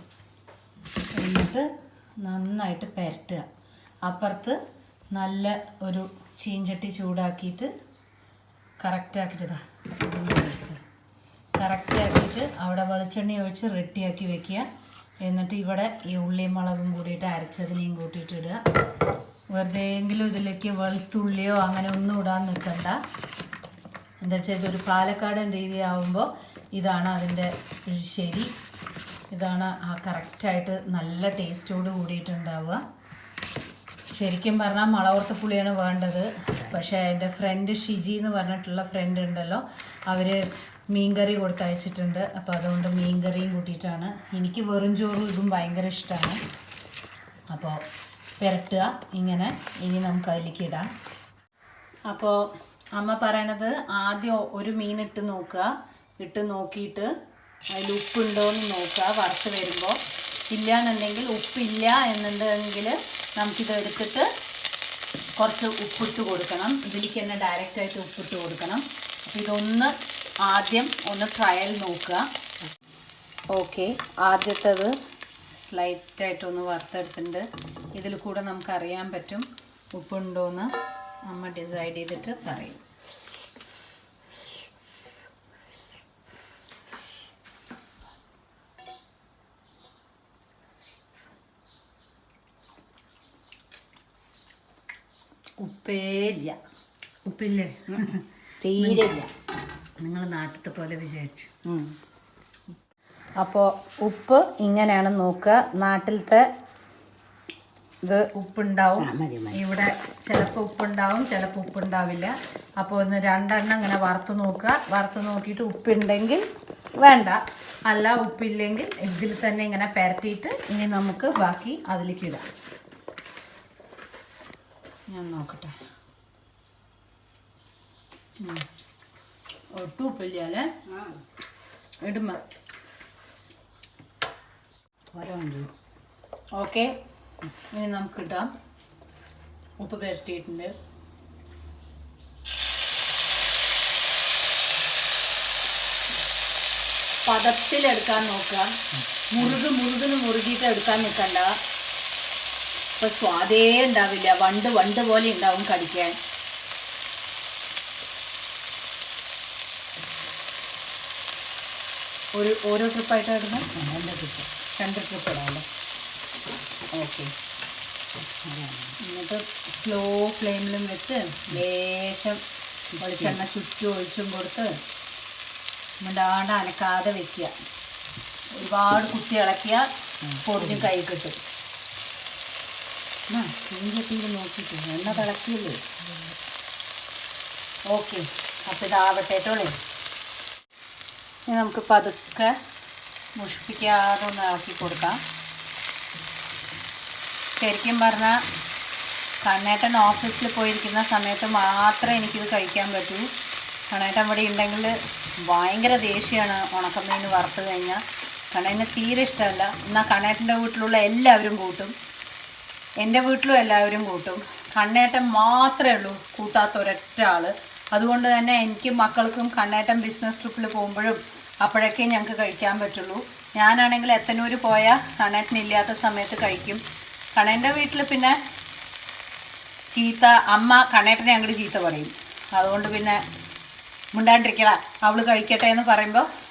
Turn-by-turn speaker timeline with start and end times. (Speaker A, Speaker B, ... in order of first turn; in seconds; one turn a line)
Speaker A: 1.1-1.7
Speaker A: 2.2-3.5
Speaker A: 4.0-4.6
Speaker A: 5.1-7.7
Speaker A: 8.8-10.8
Speaker A: 11.6-14.7
Speaker A: 15.2-18.6
Speaker A: 19.5-23.0
Speaker A: 24.2-28.5
Speaker A: 29.3-32.8
Speaker A: 34.1-46.4
Speaker A: 47.5-47.8
Speaker A: 48.4-50.9
Speaker A: 52.1-52.4
Speaker A: 52.9-57.1
Speaker A: 57.7-60.0
Speaker A: 60.5-64.3
Speaker A: 65.4-69.9
Speaker A: 70.4-72.2
Speaker A: 73.5-74.9
Speaker A: 75.5-80.7
Speaker A: 81.3-82.8
Speaker A: 95.6-96.6
Speaker A: 97.2-98.2
Speaker B: 98.0-99.3
Speaker A: 98.8-99.1
Speaker A: 100.0-101.5
Speaker B: 101.6-101.9
Speaker A: 103.4-106.5
Speaker A: 108.0-116.5
Speaker B: 109.0-109.6
Speaker A: 117.0-122.5
Speaker A: 125.1-125.7
Speaker A: 128.4-128.6
Speaker A: 129.7-130.7
Speaker B: 130.9-131.2
Speaker A: 132.0-132.4
Speaker B: 135.1-135.7
Speaker A: 136.5-136.9
Speaker A: 137.7-138.5
Speaker A: 139.8-140.7
Speaker A: 147.2-148.7
Speaker A: 149.3-151.5
Speaker A: 153.0-156.2
Speaker A: 162.3-163.7
Speaker B: 163.7-164.5
Speaker A: 164.8-165.7
Speaker A: 166.9-167.3
Speaker B: 168.4-168.9
Speaker A: 169.0-172.4
Speaker B: 173.0-173.4
Speaker A: 173.0-174.8
Speaker A: 176.0-177.5
Speaker A: 178.5-179.9
Speaker B: 180.2-180.9
Speaker A: 180.4-181.4
Speaker A: 183.3-185.9
Speaker A: 187.9-189.8
Speaker A: 191.5-192.6
Speaker A: 193.3-195.2
Speaker A: 197.6-198.4
Speaker A: 199.4-203.3
Speaker A: 203.9-211.9
Speaker A: 213.0-226.8
Speaker A: 227.3-228.4
Speaker A: 229.9-233.2
Speaker A: 234.1-236.3